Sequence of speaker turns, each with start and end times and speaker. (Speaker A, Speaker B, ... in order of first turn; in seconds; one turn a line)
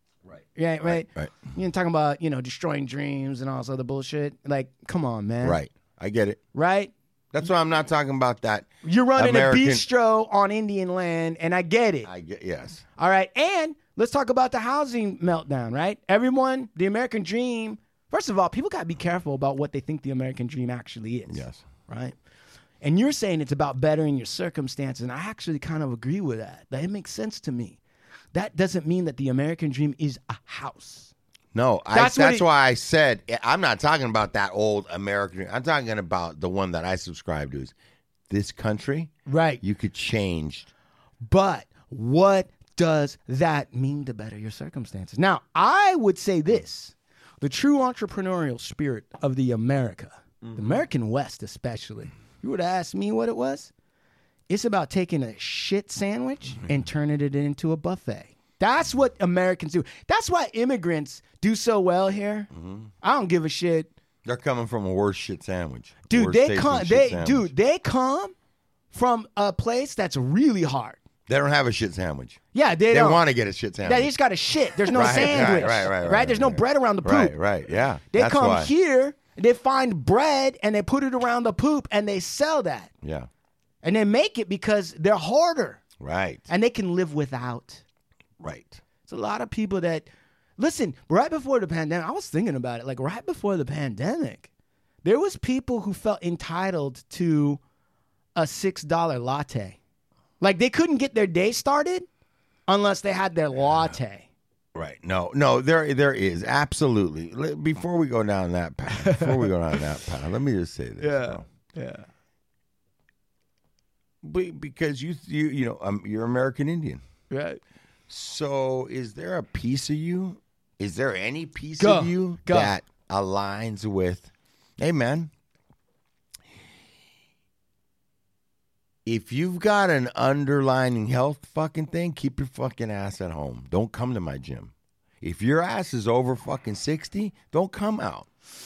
Speaker A: 0.3-1.4
Speaker B: 0.5-5.6
Speaker A: 5.4-6.4
Speaker B: 6.5-6.9
Speaker A: 7.3-9.8
Speaker B: 8.8-12.1
Speaker A: 12.0-12.8
Speaker B: 13.0-22.1
Speaker A: 21.3-21.6
Speaker B: 22.8-27.8
Speaker B: 28.3-31.1
Speaker A: 31.5-37.7
Speaker B: 31.9-32.4
Speaker A: 38.3-40.7
Speaker B: 39.3-39.6
Speaker B: 41.2-53.7
Speaker A: 50.4-50.8
Speaker B: 54.5-62.5
Speaker A: 62.5-62.9
Speaker B: 63.0-63.9
Speaker A: 64.2-67.5
Speaker B: 66.1-68.3
Speaker B: 68.9-71.0
Speaker A: 71.3-74.1
Speaker B: 72.5-73.2
Speaker B: 73.8-77.4
Speaker A: 74.9-78.7
Speaker B: 78.1-82.9
Speaker A: 83.0-83.3
Speaker B: 83.8-85.8
Speaker A: 86.0-86.4
Speaker B: 86.5-87.8
Speaker A: 88.4-88.8
Speaker B: 89.1-94.5
Speaker B: 95.0-97.6
Speaker B: 98.3-99.8
Speaker B: 100.4-102.1
Speaker B: 102.7-104.3
Speaker A: 104.7-111.4
Speaker B: 109.0-109.5
Speaker B: 111.0-112.1
Speaker A: 114.2-117.0
Speaker B: 117.3-117.6
Speaker A: 118.1-125.3
Speaker B: 121.8-122.7
Speaker A: 129.1-138.3